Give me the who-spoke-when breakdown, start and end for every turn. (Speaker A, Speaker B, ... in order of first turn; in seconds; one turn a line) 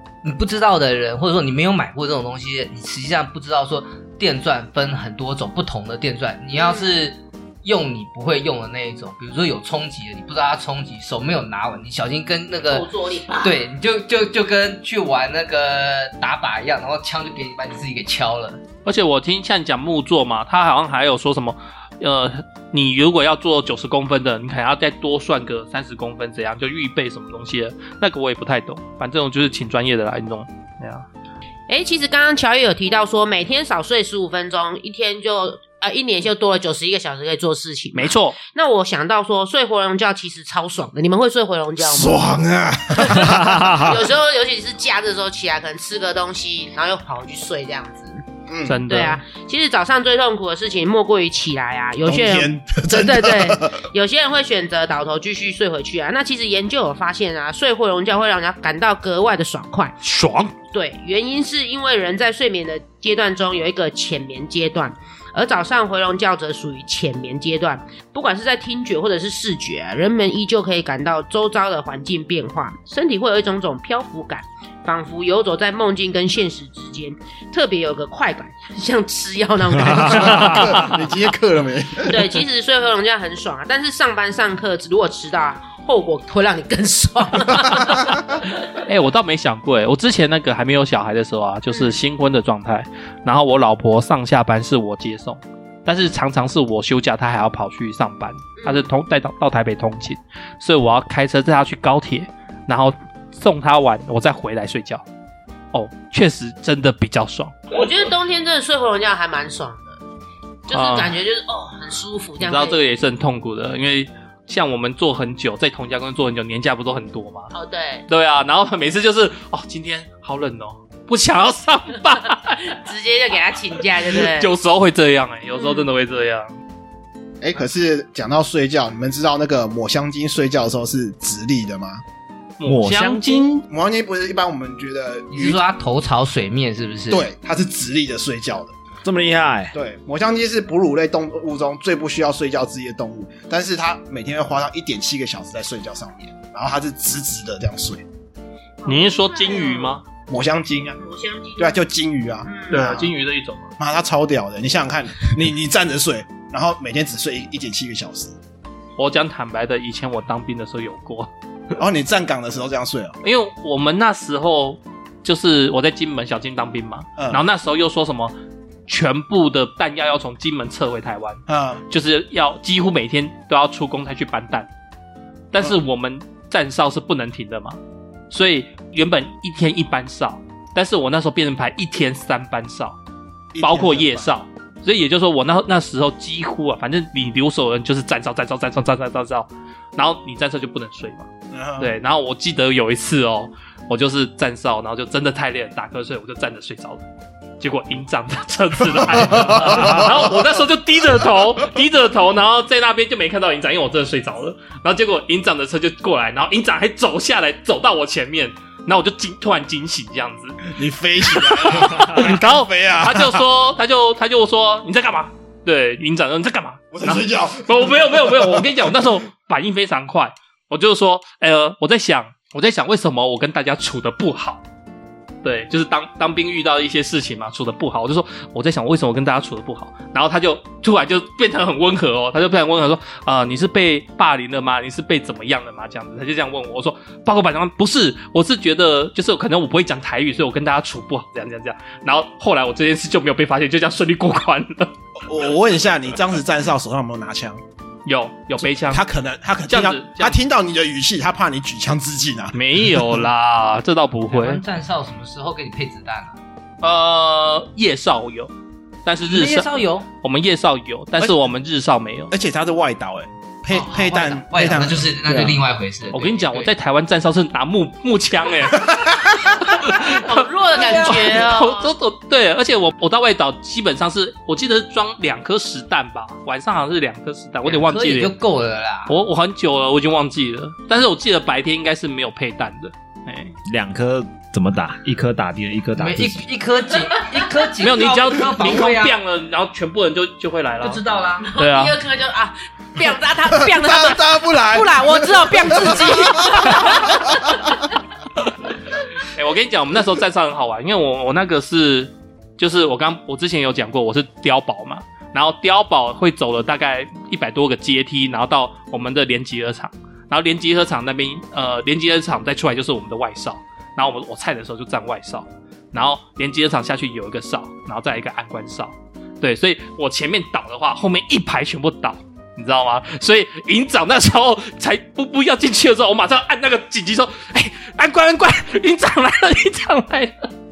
Speaker A: 0.2-12.9
Speaker B: 6.6-6.9
Speaker B: 12.7-13.6
Speaker A: 13.4-18.6
Speaker C: 18.9-31.1
Speaker B: 31.7-42.2
Speaker C: 37.9-38.4
Speaker D: 41.8-43.8
Speaker B: 43.0-48.2
Speaker E: 43.4-43.9
Speaker D: 48.5-48.8
Speaker C: 48.7-49.2
Speaker B: 48.9-60.0
Speaker D: 52.0-53.8
Speaker C: 60.0-60.5
Speaker B: 60.7-80.9
Speaker E: 79.9-80.4
Speaker D: 80.0-82.4
Speaker C: 80.6-80.9
Speaker B: 82.0-88.4
Speaker C: 88.7-105.0
Speaker B: 91.7-92.0
Speaker B: 98.6-98.9
Speaker C: 105.7-107.5
Speaker B: 107.7-110.0
Speaker B: 110.7-112.8
Speaker C: 110.7-111.2
Speaker C: 112.4-117.5
Speaker B: 117.5-118.0
Speaker C: 118.1-122.8
Speaker B: 122.7-124.5
Speaker C: 123.9-126.5
Speaker B: 125.5-125.9
Speaker D: 127.4-132.0
Speaker C: 132.6-133.6
Speaker E: 132.6-133.6
Speaker D: 133.7-135.6
Speaker A: 135.3-137.3
Speaker D: 137.1-138.7
Speaker E: 139.1-139.8
Speaker D: 139.7-148.1
Speaker B: 148.8-150.0
Speaker C: 148.8-150.0
Speaker D: 150.3-151.0
Speaker B: 151.0-151.8
Speaker D: 151.6-153.1
Speaker B: 152.4-152.8
Speaker C: 152.7-153.7
Speaker D: 153.8-158.4
Speaker C: 159.0-161.3
Speaker D: 161.8-163.2
Speaker C: 163.2-168.3
Speaker D: 167.2-167.4
Speaker C: 168.9-174.7
Speaker D: 171.5-171.8
Speaker C: 175.5-177.8
Speaker C: 178.3-183.0
Speaker D: 183.5-184.3
Speaker C: 183.6-191.3
Speaker D: 191.5-191.9
Speaker C: 191.8-197.0
Speaker C: 197.6-210.8
Speaker D: 199.1-200.3
Speaker D: 210.7-213.4
Speaker C: 211.3-224.6
Speaker D: 216.9-218.7
Speaker C: 225.4-244.9
Speaker D: 245.2-247.6
Speaker C: 248.1-249.1
Speaker D: 248.6-253.2
Speaker C: 249.7-250.4
Speaker C: 252.5-254.6
Speaker A: 254.3-256.4
Speaker C: 256.8-258.5
Speaker C: 259.1-262.3
Speaker A: 259.2-260.1
Speaker D: 262.3-265.2
Speaker A: 263.7-266.7
Speaker C: 266.1-269.2
Speaker C: 269.7-278.3
Speaker B: 269.8-271.9
Speaker A: 270.7-271.4
Speaker A: 277.6-279.2
Speaker C: 279.1-283.5
Speaker E: 283.7-286.5
Speaker A: 286.0-289.2
Speaker C: 287.8-291.0
Speaker A: 290.8-291.5
Speaker B: 291.4-297.9
Speaker C: 291.6-292.0
Speaker D: 293.5-297.5
Speaker C: 299.2-330.5